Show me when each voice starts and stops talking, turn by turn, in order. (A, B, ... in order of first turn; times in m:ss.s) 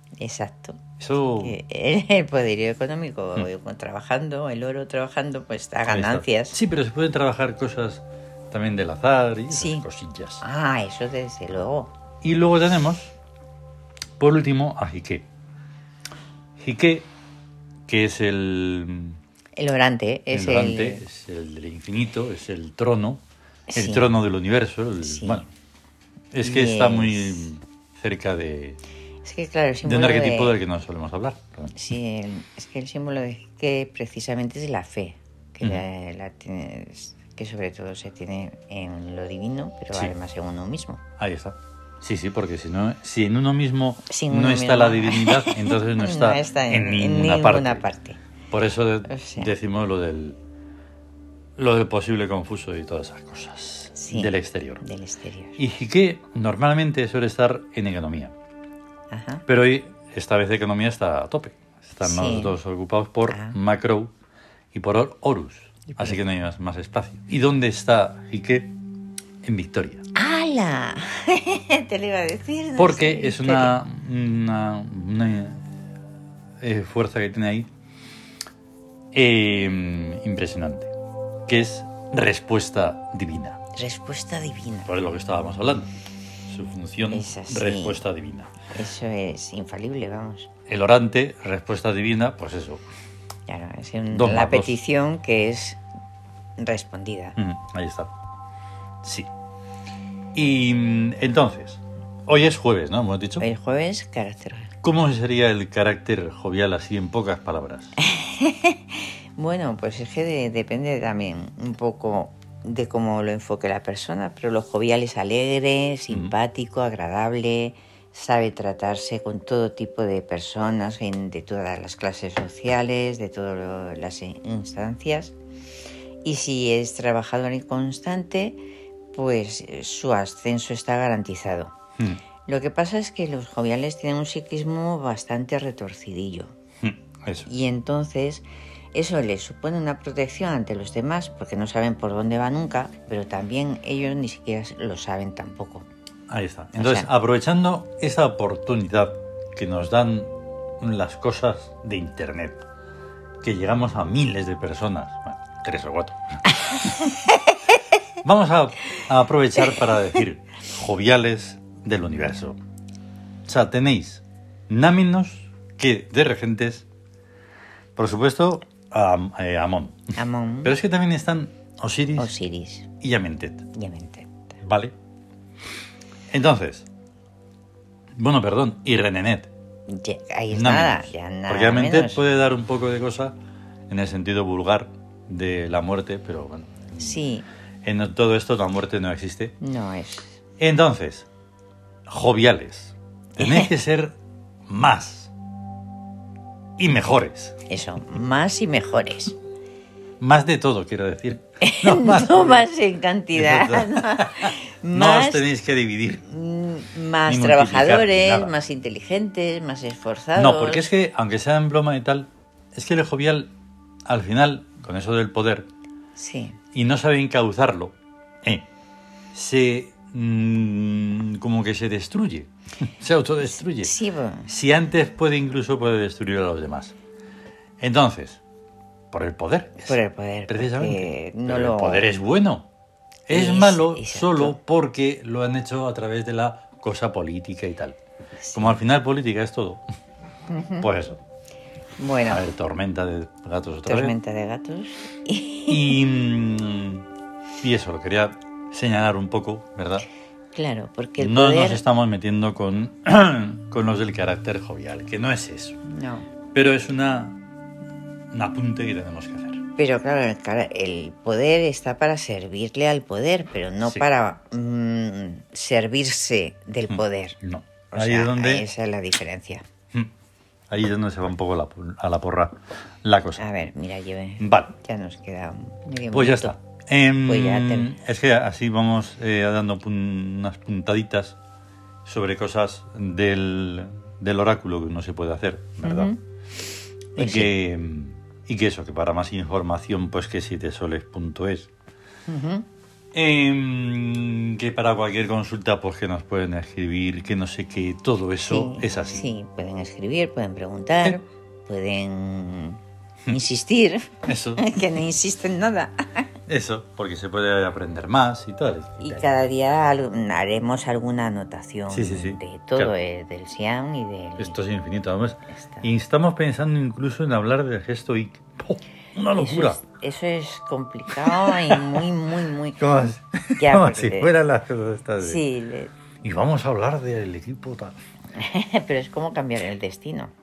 0:00.2-0:00.8 A
0:01.0-0:01.6 B
0:01.4-0:06.6 A
0:05.9-0:10.4 B
0:09.5-0:09.9 A
0:10.4-0:11.9 A
0:12.2-0:13.1 B
0:14.2-0:15.3 B
0:16.6-0:17.1 B
0:17.9-0:19.2 B
0:19.6-0:21.0 A
0:20.3-0:23.2 B
0:23.7-0:24.1 A
0:23.8-0:25.5 B
0:25.0-0:25.4 A
0:26.3-0:28.8 B
0:26.4-0:27.5 A
0:29.2-0:30.6 A
0:29.8-0:31.8 B
0:31.8-0:41.0 A
0:41.2-0:47.9 B
0:44.1-0:48.2 A
0:48.5-0:50.4 B
0:49.1-0:49.5 A
0:51.6-0:54.8 B
0:54.0-0:55.6 A
0:55.6-0:58.3 B
0:59.1-0:59.4 A
0:59.5-1:04.1 B
1:02.0-1:02.6 A
1:03.3-1:03.6 A
1:04.7-1:08.7 B
1:05.9-1:06.2 A
1:09.4-1:10.0 B
1:10.2-1:13.8 A
1:12.8-1:15.7 B
1:16.6-1:17.7 B
1:19.1-1:20.9 B
1:21.5-1:23.6 B
1:23.7-1:25.0 A
1:24.9-1:25.9 B
1:26.5-1:28.5 B
1:27.1-1:28.0 A
1:28.7-1:30.5 A
1:30.7-1:32.8 B
1:33.5-1:35.8 A
1:34.1-1:34.8 B
1:36.6-1:37.4 A
1:37.4-1:38.1 B
1:39.0-1:39.3 B
1:40.3-1:43.5 B
1:43.4-1:44.7 A
1:44.8-1:47.9 B
1:48.0-2:05.4 A
2:06.2-2:08.6 A
2:09.1-2:11.7 A
2:12.5-2:16.5 A
2:16.8-2:17.5 B
2:17.5-2:25.9 A
2:26.3-2:32.6 B
2:26.8-2:27.1 A
2:33.4-2:36.4 B
2:36.7-2:37.6 A
2:38.2-2:42.6 B
2:43.5-2:46.9 B
2:48.0-2:50.0 B
2:50.2-2:50.8 A
2:50.6-2:52.3 B
2:52.2-2:52.9 A
2:53.0-2:53.7 B
2:53.7-2:54.6 A
2:54.6-2:54.9 B
2:56.3-2:56.9 B
2:58.2-2:59.5 B
2:59.9-3:02.2 A
3:00.5-3:03.4 B
3:03.9-3:07.3 B
3:07.0-3:07.4 A
3:07.8-3:09.6 B
3:09.6-3:10.4 A
3:10.6-3:11.3 B
3:12.1-3:14.2 B
3:13.4-3:13.7 A
3:14.7-3:15.3 B
3:16.8-3:17.6 B
3:17.7-3:19.4 A
3:20.2-3:22.6 B
3:21.6-3:25.5 A
3:23.4-3:26.3 B
3:26.3-3:30.9 A
3:27.3-3:28.5 B
3:30.4-3:33.5 B
3:34.1-3:35.7 B
3:36.2-3:36.6 A
3:36.7-3:38.7 B
3:39.3-3:43.9 B
3:43.8-3:44.5 A
3:44.5-3:47.0 B
3:47.8-3:48.4 B
3:49.1-3:50.0 B
3:49.8-3:52.1 A
3:50.5-3:52.7 B
3:53.3-3:58.0 B
3:53.3-3:54.6 A
3:58.4-3:58.8 A
3:58.6-3:59.8 B
4:00.5-4:00.9 A
4:00.8-4:01.2 B
4:02.0-4:02.4 A
4:02.3-4:04.2 B
4:03.9-4:06.0 A
4:05.7-4:07.1 B
4:07.6-4:10.0 B
4:10.5-4:11.8 A
4:11.2-4:15.8 B
4:15.9-4:16.3 A
4:16.5-4:17.4 B
4:18.3-4:19.6 B
4:19.8-4:27.4 A
4:26.9-4:28.7 B
4:27.9-4:29.6 A
4:30.7-4:33.4 B
4:33.4-4:36.6 A
4:34.4-4:34.7 B
4:36.1-4:41.4 B
4:37.2-4:38.0 A
4:42.0-4:46.1 B
4:45.8-4:46.2 A
4:47.2-4:47.5 A
4:47.2-4:51.7 B
4:52.3-4:52.6 A
4:53.1-4:59.3 B
4:58.5-5:06.3 A
5:04.3-5:04.6 B
5:06.5-5:09.3 B
5:09.0-5:14.6 A
5:11.9-5:12.9 B
5:14.4-5:19.8 B
5:15.5-5:15.9 A
5:19.4-5:22.8 A
5:21.3-5:21.8 B
5:22.8-5:25.4 B
5:23.6-5:24.3 A
5:25.2-5:25.9 A
5:26.2-5:28.0 B
5:28.3-5:30.3 A